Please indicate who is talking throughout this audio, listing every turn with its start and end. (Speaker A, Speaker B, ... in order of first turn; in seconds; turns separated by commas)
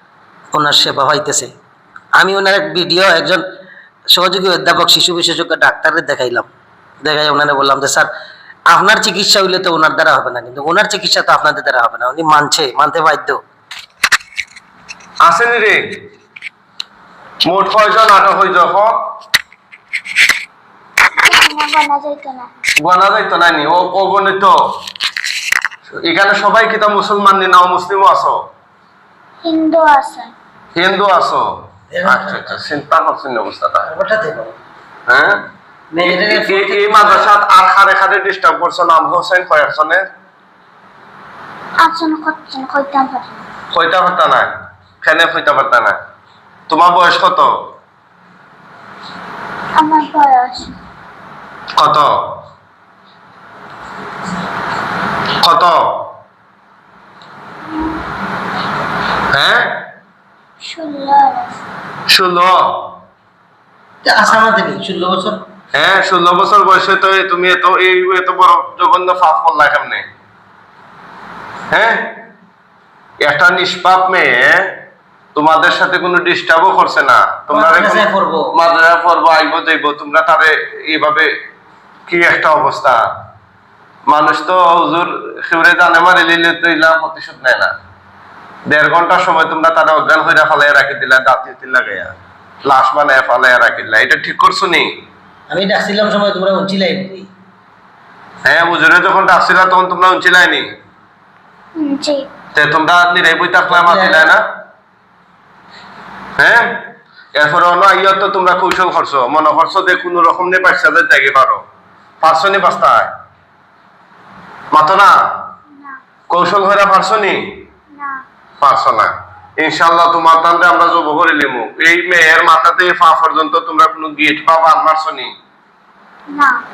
Speaker A: 0.5-1.5, Speaker A: 2.2-3.4, Speaker A: 4.1-6.5, Speaker A: 7.0-8.1, Speaker A: 8.7-13.4, Speaker B: 15.2-16.0, Speaker B: 17.4-18.9, Speaker C: 21.2-22.5, Speaker B: 22.8-24.6, Speaker B: 25.9-28.4, Speaker C: 29.4-30.3, Speaker B: 30.7-31.5, Speaker A: 31.9-32.6, Speaker B: 32.0-33.9, Speaker A: 33.8-34.5, Speaker B: 35.1-35.4, Speaker A: 35.9-37.3, Speaker B: 36.0-40.0, Speaker C: 41.8-43.4, Speaker B: 43.7-44.5, Speaker B: 45.0-46.0, Speaker B: 46.7-47.5, Speaker C: 49.8-50.7, Speaker B: 51.8-52.1, Speaker B: 55.4-56.0, Speaker B: 59.3-59.8, Speaker C: 60.6-61.5, Speaker B: 62.1-62.9, Speaker A: 64.0-65.4, Speaker B: 65.7-70.0, Speaker B: 71.7-72.2, Speaker B: 73.2-74.7, Speaker B: 75.3-81.3, Speaker A: 77.5-78.5, Speaker B: 82.1-83.0, Speaker B: 84.1-87.7, Speaker B: 88.7-92.1, Speaker B: 92.6-94.9, Speaker A: 95.5-97.3, Speaker B: 98.4-100.7, Speaker C: 101.8-102.3, Speaker B: 102.5-104.4, Speaker A: 103.7-104.3, Speaker B: 106.4-111.6, Speaker B: 112.2-113.1, Speaker B: 114.7-115.1, Speaker B: 116.3-117.6, Speaker C: 117.9-118.2, Speaker B: 118.6-125.3, Speaker C: 126.3-126.6